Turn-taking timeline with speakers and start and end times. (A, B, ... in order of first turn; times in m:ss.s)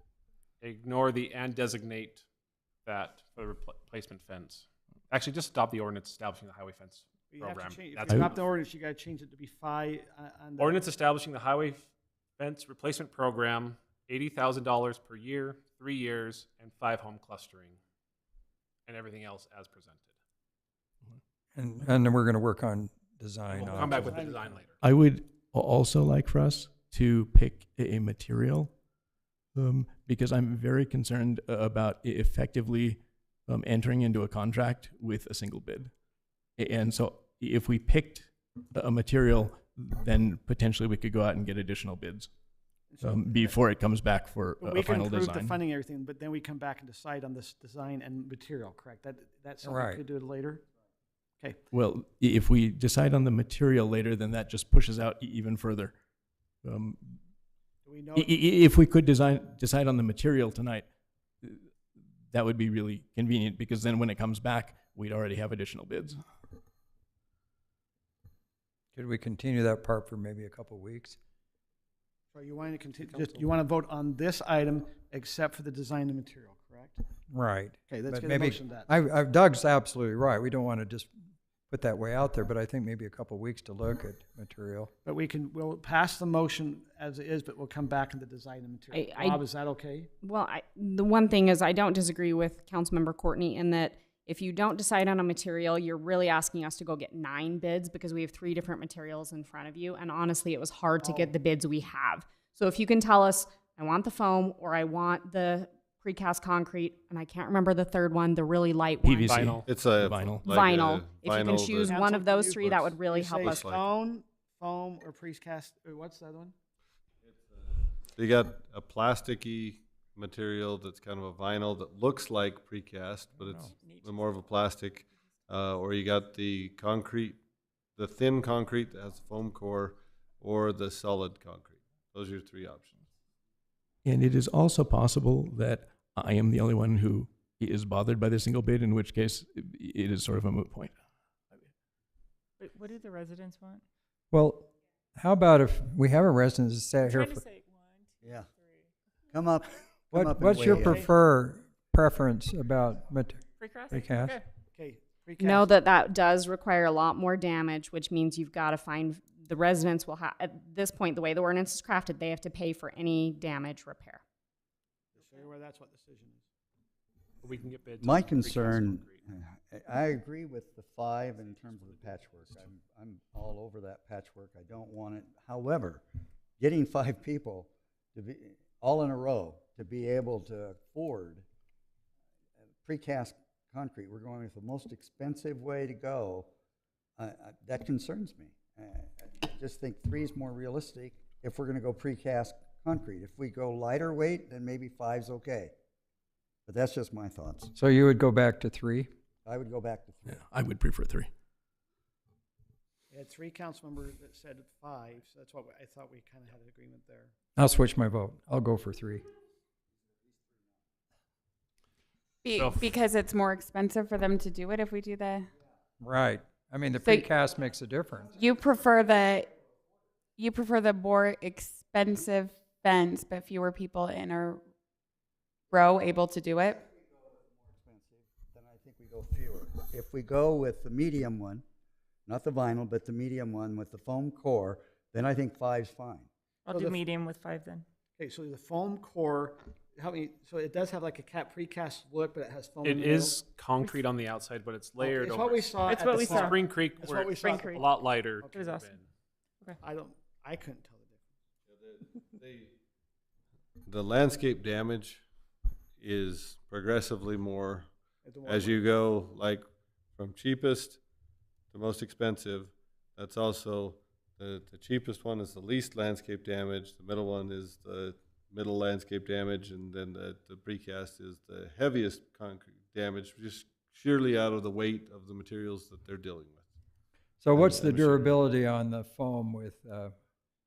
0:00.6-0:02.2 A
0:02.8-0:08.4 A
0:07.3-0:10.8 B
0:10.6-0:17.8 A
0:18.9-0:20.1 A
0:21.5-0:24.3 C
0:23.5-0:24.8 A
0:23.6-0:24.6 B
0:24.8-0:28.7 D
0:29.5-0:35.9 D
0:36.6-0:42.3 D
0:42.9-0:43.6 B
0:43.0-0:45.6 D
0:44.6-0:50.6 B
0:49.6-0:50.0 C
0:51.7-0:56.0 D
0:56.6-0:57.2 D
0:57.8-0:58.4 B
0:58.1-1:00.8 D
1:01.4-1:01.7 D
1:02.3-1:06.2 D
1:08.9-1:11.2 C
1:12.3-1:17.0 B
1:17.3-1:21.1 C
1:17.9-1:18.9 B
1:21.7-1:24.9 C
1:25.0-1:30.1 B
1:28.9-1:29.4 E
1:30.2-1:49.4 E
1:41.0-1:41.3 B
1:49.0-1:50.6 D
1:49.3-1:49.6 A
1:49.6-1:53.9 F
1:50.5-1:53.6 E
1:51.8-1:56.5 B
1:57.2-2:07.4 F
2:03.5-2:04.1 G
2:08.0-2:13.0 F
2:14.0-2:20.9 D
2:22.6-2:23.8 G
2:24.3-2:27.4 C
2:27.0-2:28.1 G
2:28.2-2:28.5 H
2:28.6-2:28.9 G
2:29.3-2:31.1 H
2:30.1-2:34.4 C
2:33.6-2:34.4 G
2:34.7-2:35.7 B
2:35.5-2:44.2 E
2:45.1-2:46.4 B
2:47.4-2:49.2 A
2:48.0-2:56.0 H
2:51.6-2:52.1 B
2:56.6-3:01.4 H
3:02.8-3:06.5 H
3:07.2-3:15.7 H
3:16.6-3:17.7 H
3:17.7-3:19.1 C
3:19.4-3:20.4 H
3:20.3-3:21.3 D
3:23.1-3:27.3 B
3:27.6-3:29.2 C
3:32.4-3:35.5 I
3:32.5-3:32.9 A
3:36.0-3:38.4 C
3:38.4-3:39.5 I
3:40.4-3:44.6 I
3:45.7-3:46.8 I
3:47.0-3:51.6 H
3:52.3-3:56.3 H
3:56.6-3:57.8 G
3:56.7-3:57.0 B
3:58.2-4:03.4 B
4:02.8-4:09.0 A
4:05.0-4:09.0 B
4:05.8-4:06.6 G
4:07.4-4:07.8 G
4:08.5-4:08.9 G
4:09.8-4:11.3 B
4:11.7-4:12.7 F
4:13.9-4:15.2 F
4:16.0-4:17.9 F
4:18.2-4:18.8 B
4:18.4-4:21.0 F
4:21.7-4:36.6 F
4:37.4-4:40.1 C
4:37.5-4:38.4 F